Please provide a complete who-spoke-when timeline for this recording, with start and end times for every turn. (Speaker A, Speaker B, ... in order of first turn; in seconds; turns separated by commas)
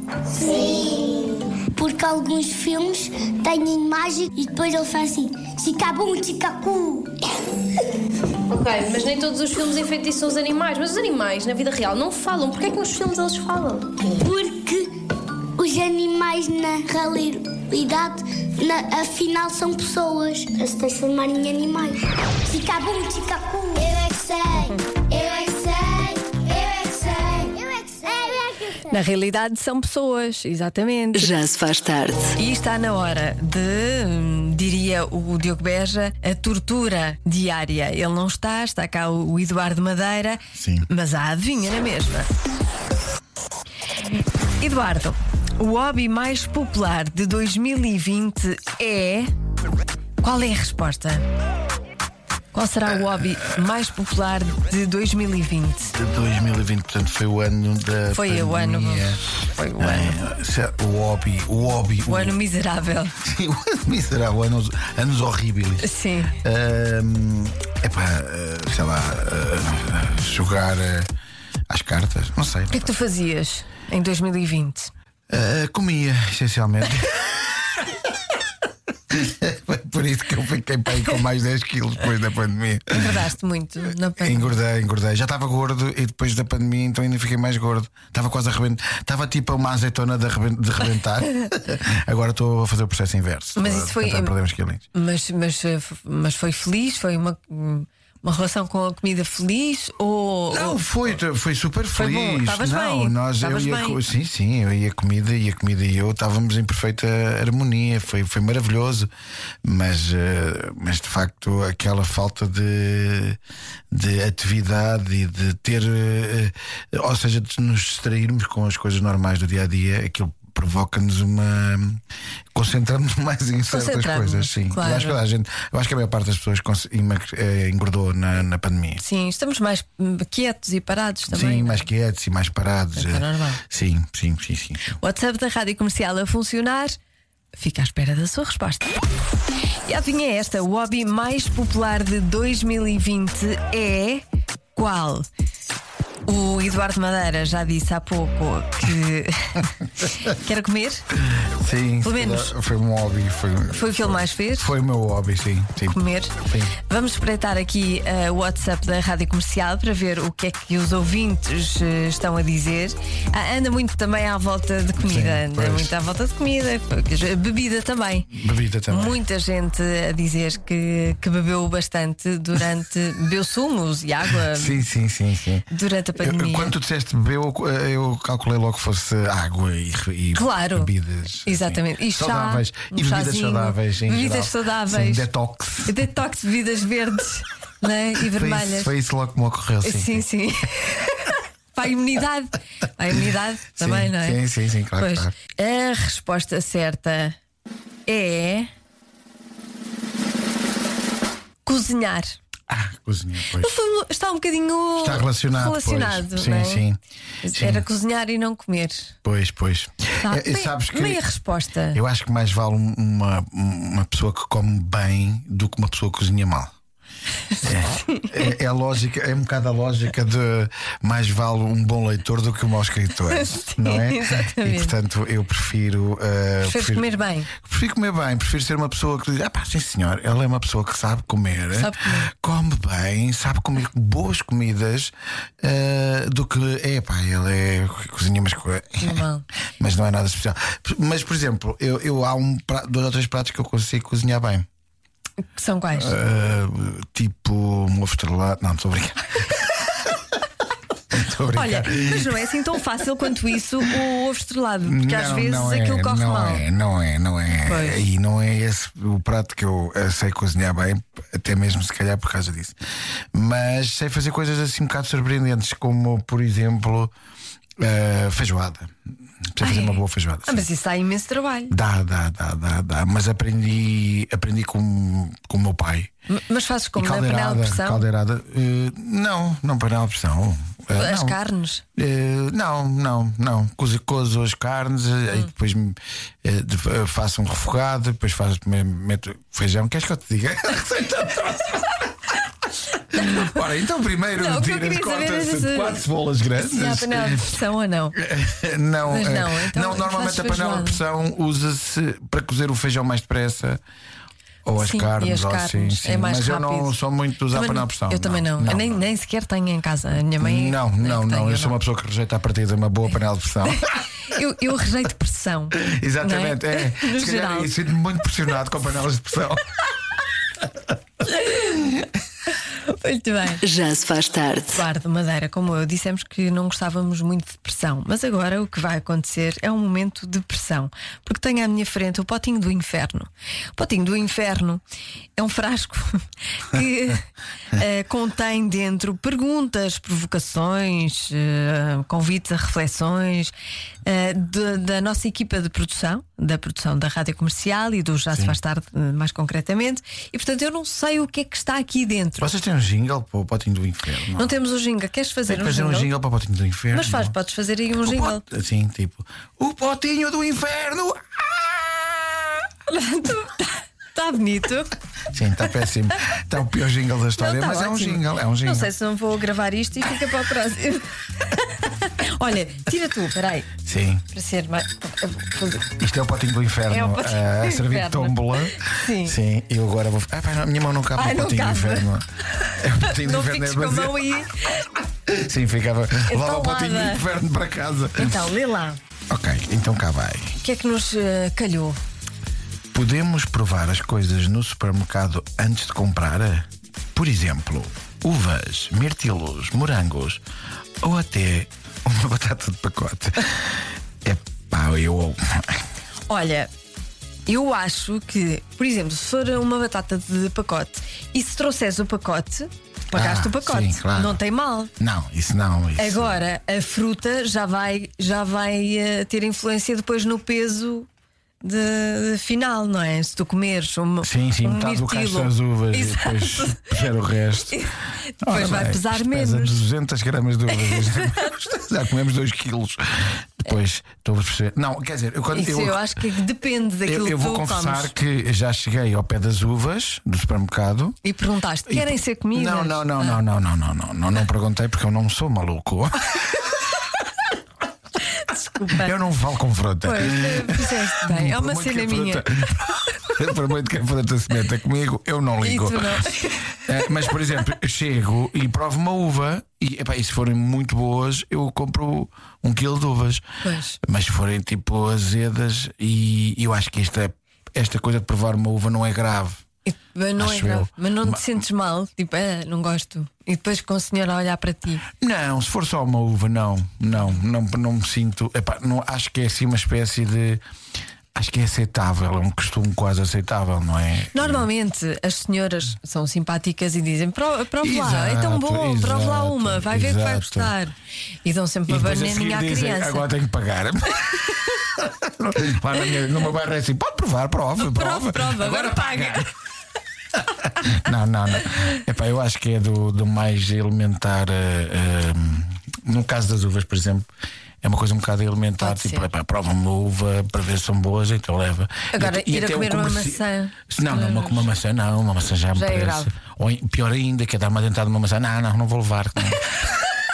Speaker A: 0.4-7.2, Speaker B: 0.5-1.3, Speaker B: 8.5-14.1, Speaker A: 14.1-14.9, Speaker A: 15.6-29.0, Speaker C: 28.9-31.3, Speaker D: 31.1-32.4, Speaker C: 32.4-42.3, Speaker E: 40.5-40.9, Speaker C: 44.6-49.3, Speaker C: 50.2-51.3, Speaker C: 52.5-55.9, Speaker E: 55.9-59.2, Speaker C: 58.1-60.2, Speaker E: 59.8-62.4, Speaker C: 62.1-63.2, Speaker E: 63.2-65.9, Speaker C: 65.8-66.3, Speaker E: 66.4-71.1, Speaker E: 71.7-73.0, Speaker C: 72.7-74.9, Speaker E: 75.3-78.0, Speaker E: 79.1-83.2, Speaker C: 82.9-84.6, Speaker E: 84.2-94.8, Speaker C: 93.6-94.3, Speaker C: 94.9-100.8, Speaker E: 100.5-109.1, Speaker C: 101.9-104.0, Speaker E: 109.6-113.4, Speaker E: 113.9-122.0, Speaker E: 122.5-129.0, Speaker C: 123.7-125.2, Speaker C: 129.0-131.8, Speaker E: 131.3-134.9, Speaker C: 133.0-133.6, Speaker C: 135.0-136.9, Speaker C: 137.6-139.0, Speaker C: 139.9-144.2, Speaker C: 144.8-145.3, Speaker C: 146.3-151.1, Speaker E: 151.4-156.7, Speaker C: 152.0-152.5, Speaker C: 153.7-154.7, Speaker C: 155.9-168.3, Speaker E: 165.0-165.9, Speaker E: 168.3-169.2, Speaker C: 168.9-174.8, Speaker E: 174.5-186.1, Speaker C: 175.7-176.7, Speaker C: 180.3-180.9, Speaker C: 181.5-185.3, Speaker C: 185.9-188.9, Speaker E: 188.2-190.2, Speaker C: 189.8-194.4, Speaker E: 193.8-195.3, Speaker C: 195.0-197.4, Speaker C: 198.1-198.7, Speaker C: 201.6-202.4, Speaker E: 202.7-203.8, Speaker C: 203.5-206.8, Speaker E: 205.0-207.0, Speaker C: 207.4-209.1, Speaker E: 207.5-207.9, Speaker E: 209.2-211.2, Speaker C: 210.2-212.0, Speaker E: 211.9-216.7, Speaker E: 217.6-239.2, Speaker C: 218.0-218.3, Speaker C: 223.3-225.0, Speaker C: 226.6-227.5, Speaker C: 231.8-232.3, Speaker C: 239.0-239.5, Speaker E: 239.8-244.7, Speaker C: 245.5-246.2, Speaker E: 245.9-250.1, Speaker E: 251.1-252.4, Speaker C: 251.5-256.7, Speaker E: 254.8-262.8, Speaker C: 257.6-258.0, Speaker E: 263.3-267.1, Speaker E: 267.8-268.9, Speaker E: 269.5-270.7, Speaker C: 269.6-271.8, Speaker E: 271.7-276.1, Speaker C: 276.3-278.1, Speaker E: 276.9-281.4, Speaker C: 280.9-281.9, Speaker E: 281.9-292.3, Speaker E: 292.9-297.6, Speaker C: 294.4-296.0, Speaker C: 296.6-298.2, Speaker E: 298.1-303.8, Speaker C: 299.1-301.0, Speaker E: 304.6-309.1, Speaker C: 304.8-306.9, Speaker C: 307.5-311.8, Speaker E: 310.4-313.9, Speaker C: 313.6-317.7, Speaker E: 315.7-319.7, Speaker C: 321.3-321.9, Speaker C: 322.7-323.6, Speaker D: 323.6-324.8, Speaker C: 324.7-334.8, Speaker C: 335.4-343.5, Speaker C: 344.1-352.5, Speaker E: 352.4-354.5, Speaker C: 354.4-356.1, Speaker E: 355.5-357.4, Speaker C: 356.9-358.4, Speaker E: 358.0-362.6, Speaker C: 362.9-364.9, Speaker E: 365.3-368.9, Speaker C: 367.4-373.7, Speaker E: 373.8-374.2, Speaker C: 374.3-375.9, Speaker E: 376.0-384.2, Speaker C: 376.9-379.4, Speaker C: 381.1-382.1, Speaker C: 382.6-384.8, Speaker E: 385.3-388.5, Speaker C: 386.3-387.2, Speaker C: 388.2-389.0, Speaker E: 389.3-390.6, Speaker C: 390.6-392.0, Speaker E: 392.9-400.4, Speaker E: 401.0-405.8, Speaker C: 406.3-406.7, Speaker C: 407.5-414.9, Speaker E: 413.1-414.4, Speaker E: 415.0-416.4, Speaker C: 416.0-421.1, Speaker C: 421.6-427.1, Speaker E: 424.2-427.9, Speaker C: 427.7-429.8, Speaker E: 428.4-436.1, Speaker C: 430.7-431.5, Speaker C: 435.5-438.1, Speaker E: 437.1-441.2, Speaker C: 441.2-443.4, Speaker E: 441.9-446.8, Speaker C: 448.4-449.1, Speaker E: 448.9-463.4, Speaker C: 450.0-452.5, Speaker C: 455.6-456.8, Speaker C: 463.6-464.0, Speaker E: 464.0-469.6, Speaker C: 469.9-475.1, Speaker E: 470.4-471.5, Speaker E: 475.2-480.6, Speaker E: 481.4-484.7, Speaker C: 484.3-493.3, Speaker E: 487.8-490.8, Speaker E: 491.9-499.5, Speaker C: 497.8-499.5, Speaker E: 500.6-507.3, Speaker E: 507.8-520.0, Speaker C: 508.8-509.3, Speaker C: 512.1-514.7, Speaker C: 515.7-516.3